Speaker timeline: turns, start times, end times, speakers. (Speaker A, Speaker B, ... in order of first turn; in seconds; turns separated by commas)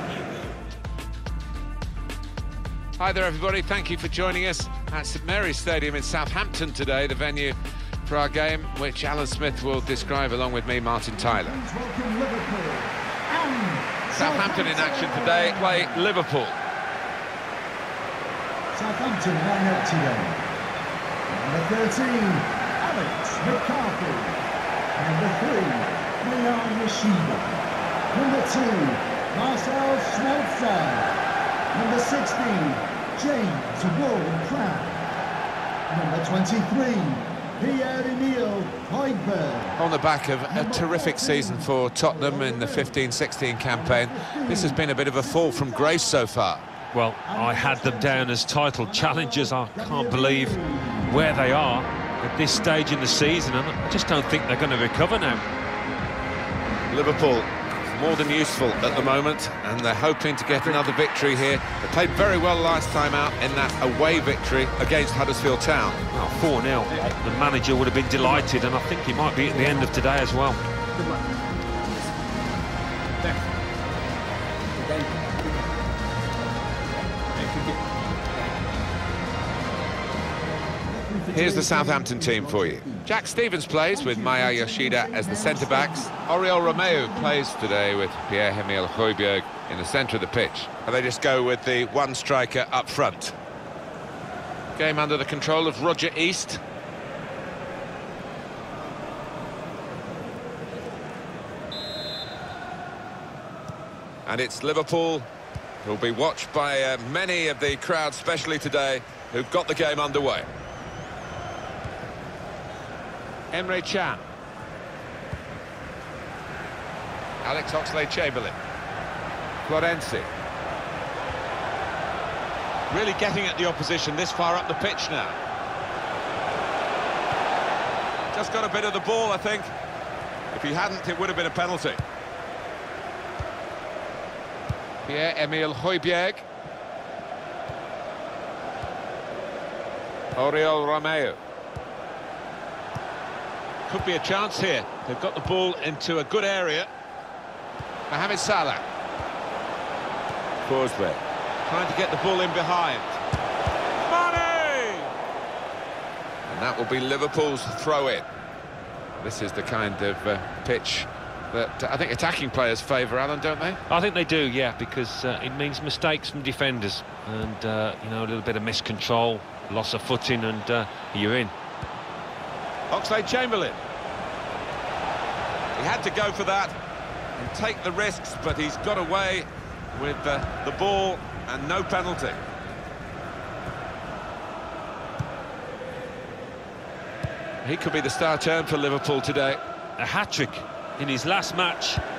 Speaker A: 3.0-11.6, Speaker B: 11.2-16.1, Speaker A: 14.1-16.6, Speaker B: 18.7-20.5, Speaker B: 21.3-24.4, Speaker B: 25.0-31.1, Speaker B: 31.7-35.1, Speaker B: 35.9-39.8, Speaker A: 39.8-46.6, Speaker B: 40.5-43.1, Speaker B: 43.7-46.2, Speaker C: 46.9-55.4, Speaker B: 47.2-51.3, Speaker A: 56.9-66.0, Speaker C: 66.1-70.6, Speaker B: 80.9-83.1, Speaker A: 81.3-93.4, Speaker B: 83.9-87.5, Speaker A: 94.7-96.6, Speaker A: 104.2-105.3, Speaker A: 105.8-110.5, Speaker A: 113.5-114.2, Speaker A: 117.4-118.6, Speaker A: 119.7-120.3, Speaker A: 122.9-125.4, Speaker A: 128.3-129.7, Speaker A: 130.5-132.0, Speaker A: 135.1-136.5, Speaker A: 140.3-141.4, Speaker A: 143.9-146.9, Speaker A: 148.1-148.9, Speaker A: 150.7-153.2, Speaker A: 154.1-155.1, Speaker A: 156.5-158.3, Speaker A: 159.2-163.8, Speaker C: 163.9-171.5, Speaker A: 172.9-173.8, Speaker A: 175.8-176.8, Speaker A: 177.4-182.4, Speaker A: 187.6-189.6, Speaker C: 190.0-192.0